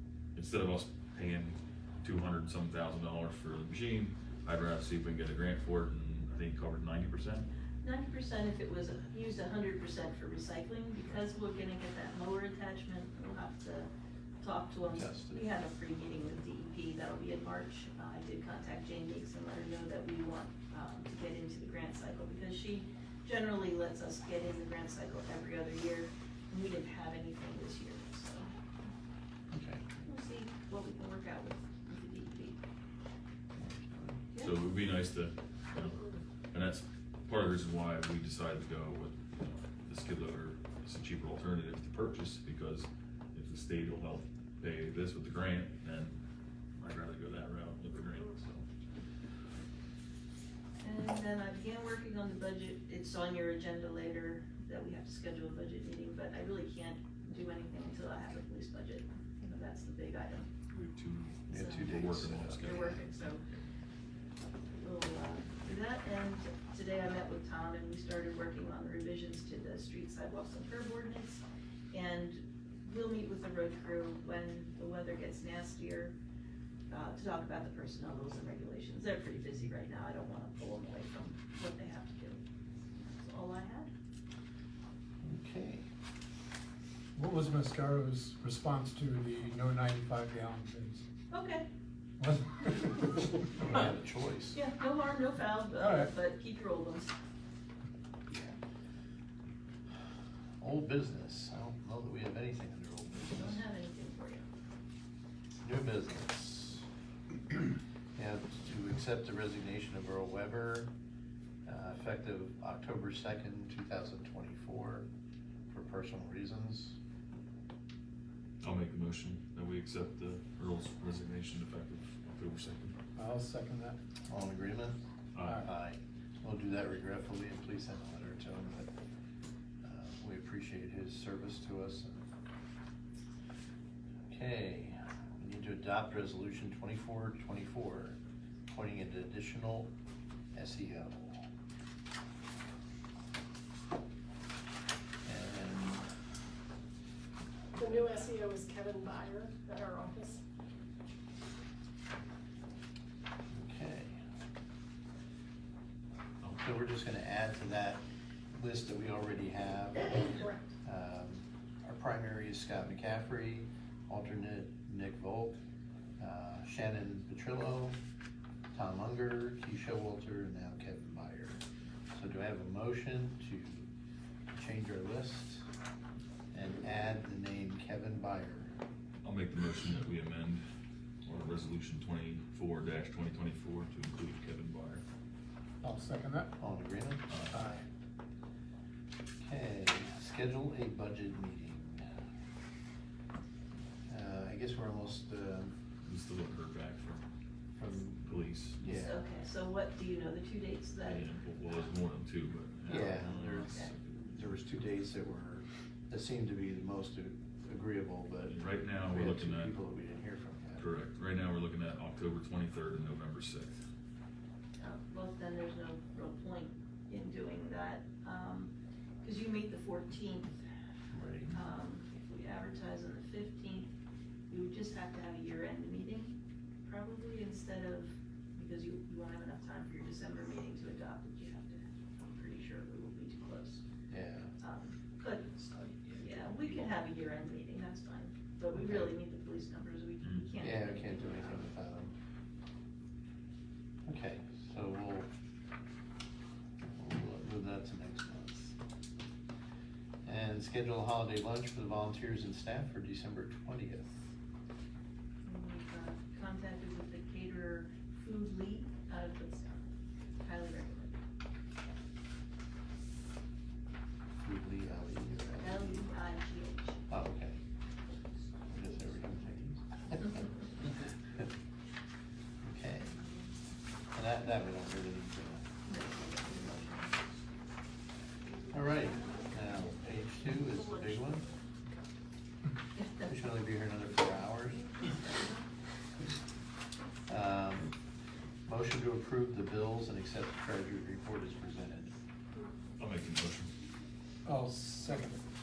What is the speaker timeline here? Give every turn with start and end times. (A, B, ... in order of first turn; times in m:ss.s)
0:00.3-0:07.5 A
0:07.8-0:13.9 B
0:14.4-0:28.5 B
0:14.9-0:15.4 C
0:29.5-0:29.9 C
0:30.0-0:32.6 B
0:33.6-0:34.2 C
0:34.4-0:46.2 A
0:46.8-0:48.6 A
0:50.8-1:00.5 B
1:00.7-1:03.3 A
1:01.5-1:03.0 C
1:01.5-1:03.4 B
1:04.7-1:16.2 B
1:16.9-1:22.4 B
1:22.9-1:23.9 B
1:25.2-1:25.9 C
1:27.2-1:31.0 D
1:31.3-1:31.6 B
1:32.2-1:33.2 D
1:33.6-1:34.6 C
1:34.5-1:37.1 B
1:35.8-1:36.1 D
1:38.3-1:38.5 C
1:40.6-1:43.6 C
1:43.3-1:44.5 B
1:45.6-1:46.8 C
1:48.2-1:50.9 C
1:51.6-1:55.1 C
1:55.7-1:57.0 C
1:58.6-2:03.0 A
2:03.2-2:04.0 D
2:04.3-2:05.0 C
2:05.3-2:05.6 A
2:05.4-2:05.6 D
2:05.6-2:08.9 C
2:09.8-2:12.2 C
2:14.3-2:19.9 C
2:20.5-2:21.4 C
2:25.2-2:26.1 C
2:27.7-2:30.4 E
2:27.8-2:28.1 C
2:33.5-2:34.2 C
2:36.6-2:38.0 C
2:38.5-2:40.3 C
2:40.3-2:40.6 E
2:40.8-2:45.6 C
2:46.2-2:48.0 C
2:48.7-2:51.6 C
2:52.1-2:53.9 C
2:54.5-2:55.7 C
2:56.5-2:58.8 C
2:59.2-3:00.6 A
3:01.2-3:05.0 A
3:05.8-3:06.5 D
3:06.6-3:07.2 C
3:07.3-3:07.7 A
3:07.5-3:07.8 D
3:09.4-3:12.1 C
3:14.1-3:15.8 C
3:16.0-3:17.2 A
3:17.8-3:19.2 C
3:18.2-3:18.8 A
3:18.8-3:21.2 B
3:21.0-3:24.4 A
3:22.9-3:30.8 C
3:23.5-3:23.9 B
3:28.5-3:29.7 A
3:30.8-3:33.8 A
3:34.8-3:40.6 B
3:41.1-3:41.6 C
3:41.5-3:43.9 B
3:44.5-3:53.8 B
3:54.1-3:54.5 C
3:54.6-4:01.7 B
3:58.8-3:59.1 C
4:00.6-4:02.1 C
4:04.0-4:05.3 C
4:06.8-4:08.8 C
4:10.2-4:14.3 C
4:15.4-4:19.9 B
4:20.4-4:21.2 B
4:24.4-4:26.0 C
4:25.6-4:27.0 B
4:27.1-4:27.6 C
4:28.7-4:30.5 C
4:32.6-4:33.2 C
4:34.1-4:35.7 C
4:35.8-4:37.2 B
4:38.7-4:41.5 C
4:42.9-4:43.5 B
4:43.2-4:44.9 C
4:44.3-4:45.7 B
4:47.3-4:47.9 C
4:48.6-4:52.2 C
4:53.0-4:53.7 A
4:54.4-4:55.4 D